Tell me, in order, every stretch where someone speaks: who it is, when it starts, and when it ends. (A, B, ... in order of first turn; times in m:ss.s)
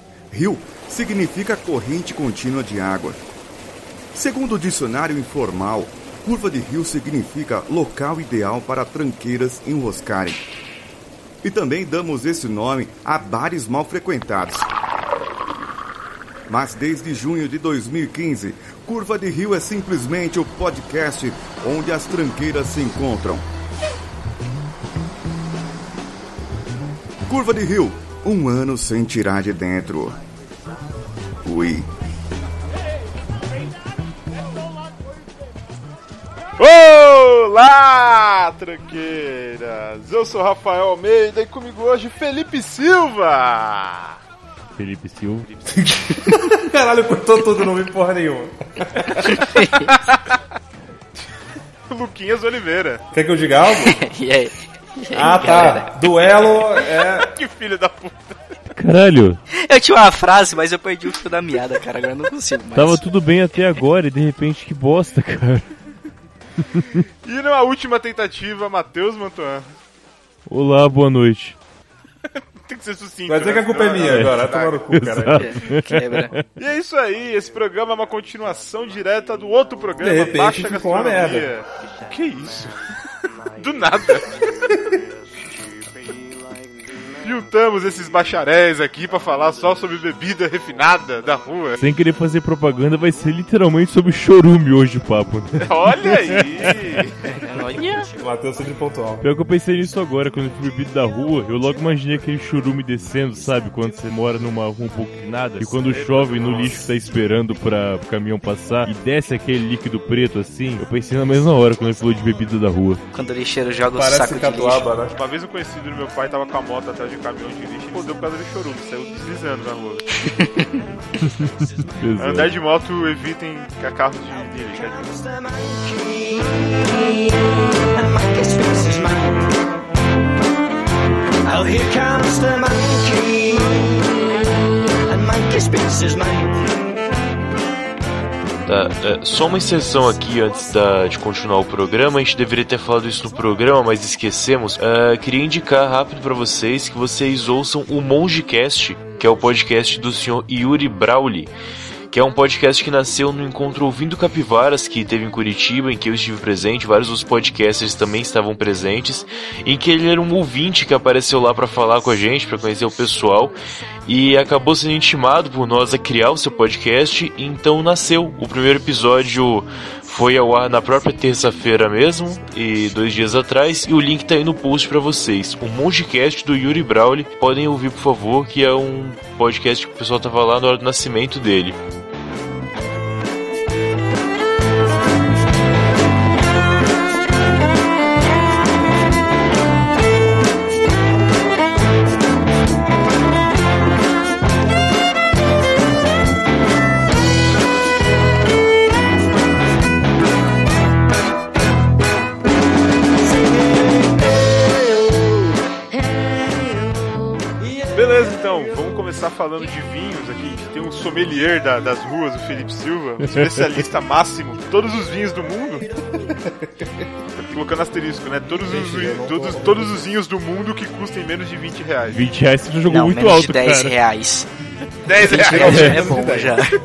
0:00.3-0:03.2 A
0:04.1-0:10.4 A
0:11.4-0:14.7 A
0:16.5-0:23.4 A
0:27.2-0:30.2 A
0:31.4-0:31.9 A
0:36.6-0:44.2 B
0:44.8-0:45.5 C
0:45.8-0:49.8 D
0:49.3-0:49.9 E
0:51.9-0:53.0 B
0:53.1-0:54.1 D
0:53.8-0:55.9 E
0:55.1-0:57.3 D
0:56.5-0:58.4 B
0:58.7-0:59.4 C
0:59.6-1:03.0 E
1:02.7-1:05.7 C
1:06.6-1:07.0 C
1:07.2-1:09.6 B
1:10.5-1:11.6 C
1:12.6-1:14.8 B
1:13.3-1:15.5 D
1:14.9-1:16.4 C
1:15.2-1:16.3 E
1:16.6-1:22.9 B
1:20.0-1:21.5 D
1:23.5-1:24.5 B
1:24.7-1:25.0 D
1:27.2-1:31.8 B
1:31.8-1:36.7 C
1:35.6-1:37.2 B
1:37.2-1:38.1 E
1:38.1-1:39.3 D
1:39.2-1:53.0 C
1:45.9-1:46.8 B
1:53.1-1:54.8 E
1:53.9-1:55.1 D
1:55.1-2:00.1 B
2:00.3-2:00.7 E
2:01.2-2:02.5 C
2:02.2-2:05.1 B
2:04.8-2:09.5 F
2:11.4-2:16.7 F
2:18.6-2:31.5 G
2:32.1-3:01.8 G
3:27.9-3:35.9 B
3:33.3-3:33.6 C
3:36.5-3:37.0 D
3:37.4-3:42.2 B
3:38.5-3:40.0 D
3:42.1-3:43.9 C
3:42.9-3:44.5 E
3:45.0-3:46.6 B
3:45.2-3:46.8 E
3:45.2-3:46.6 D
3:45.6-3:46.0 C